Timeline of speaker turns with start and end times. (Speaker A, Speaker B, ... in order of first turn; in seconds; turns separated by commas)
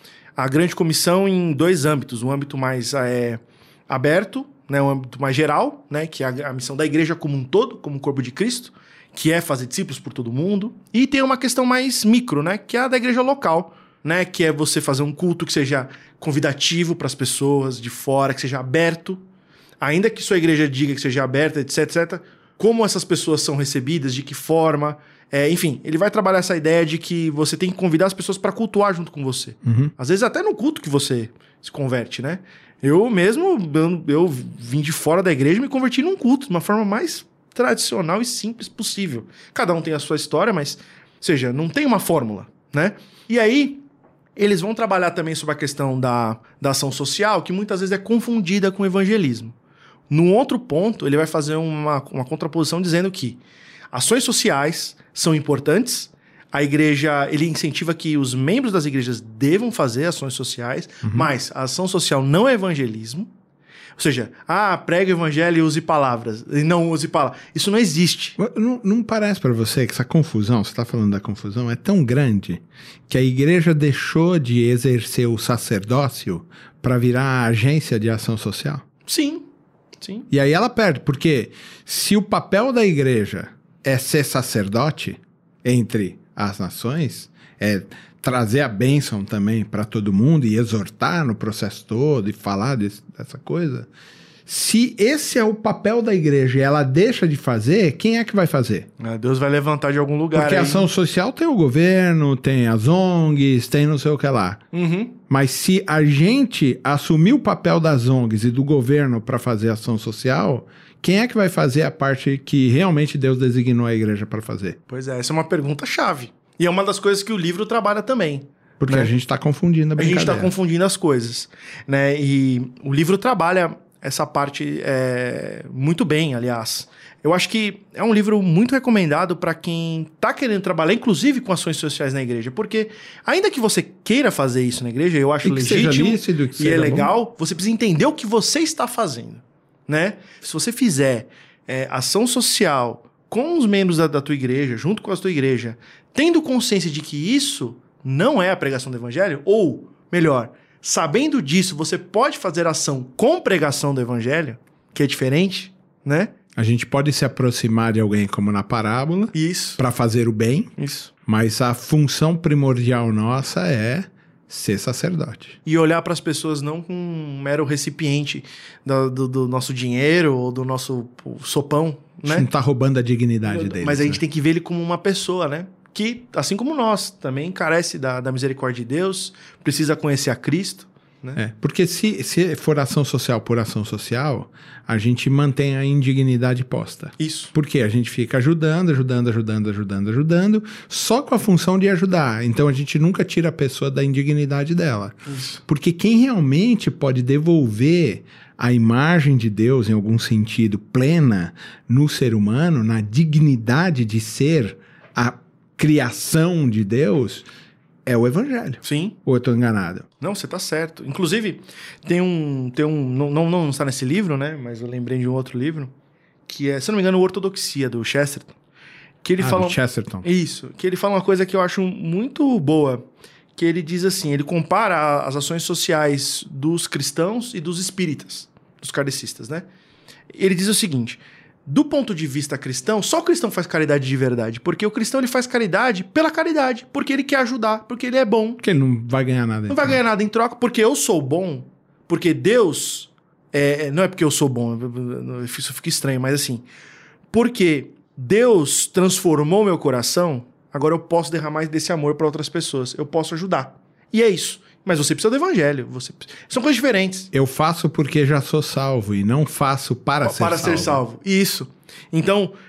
Speaker A: 0.4-19.2, Speaker A: 19.8-43.9, Speaker B: 29.6-29.9, Speaker A: 44.4-49.5, Speaker A: 50.1-53.4, Speaker A: 53.9-63.3, Speaker A: 64.0-68.4, Speaker B: 68.4-78.8, Speaker A: 79.0-79.5, Speaker A: 80.0-80.3, Speaker B: 80.3-93.9, Speaker B: 94.5-98.9, Speaker A: 99.0-100.9, Speaker B: 100.3-104.6, Speaker A: 104.7-105.2, Speaker B: 105.3-114.8, Speaker A: 114.9-119.1, Speaker B: 118.8-120.5, Speaker A: 120.0-156.3, Speaker B: 135.4-137.1, Speaker B: 156.6-160.7, Speaker A: 159.3-159.8, Speaker A: 160.8-161.1, Speaker B: 161.3-165.6, Speaker A: 165.6-172.5, Speaker B: 172.2-174.2, Speaker A: 173.4-181.4, Speaker B: 181.4-207.5, Speaker A: 187.2-187.5, Speaker A: 195.3-195.6, Speaker B: 208.0-210.1, Speaker A: 208.8-209.2, Speaker A: 210.2-215.9, Speaker A: 216.5-218.6, Speaker A: 219.2-229.7, Speaker B: 219.4-220.2, Speaker A: 230.3-238.6, Speaker B: 238.6-240.0, Speaker A: 239.7-246.6, Speaker A: 247.3-257.3, Speaker B: 257.3-261.0, Speaker A: 260.2-262.5